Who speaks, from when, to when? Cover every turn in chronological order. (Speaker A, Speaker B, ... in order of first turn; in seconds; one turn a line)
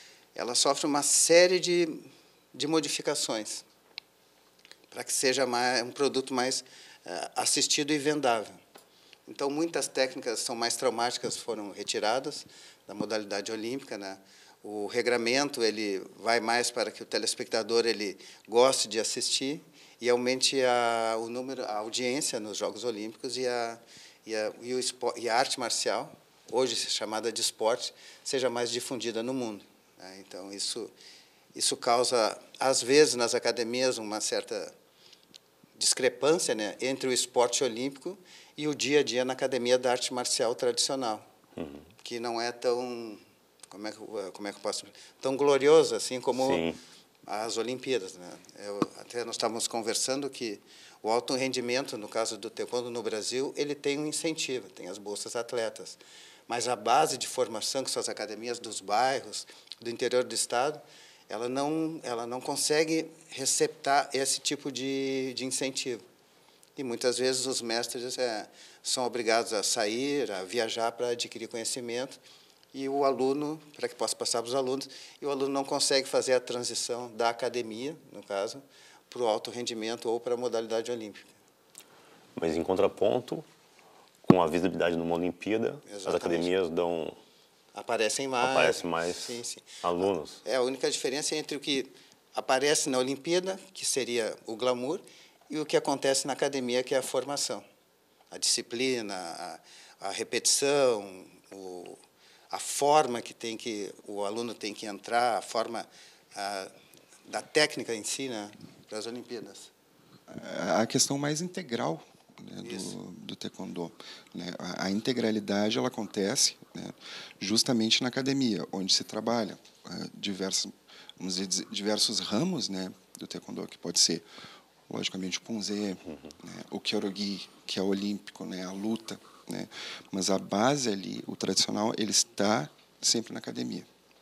Speaker A: 0.3-3.6
Speaker A: 4.9-8.5
Speaker A: 9.3-30.9
Speaker A: 31.5-34.7
Speaker A: 35.8-41.2
Speaker B: 41.6-41.9
Speaker A: 42.0-46.6
Speaker B: 46.3-46.8
Speaker A: 47.2-66.0
Speaker A: 66.8-72.2
Speaker A: 72.7-81.3
Speaker B: 82.3-83.5
Speaker B: 84.2-87.2
Speaker A: 85.8-86.5
Speaker A: 87.7-89.7
Speaker B: 88.4-90.4
Speaker A: 90.4-97.6
Speaker A: 98.3-102.0
Speaker A: 102.5-106.7
Speaker A: 107.2-109.7
Speaker C: 110.3-124.2
Speaker A: 112.6-112.9
Speaker C: 124.9-133.9
Speaker B: 126.1-126.3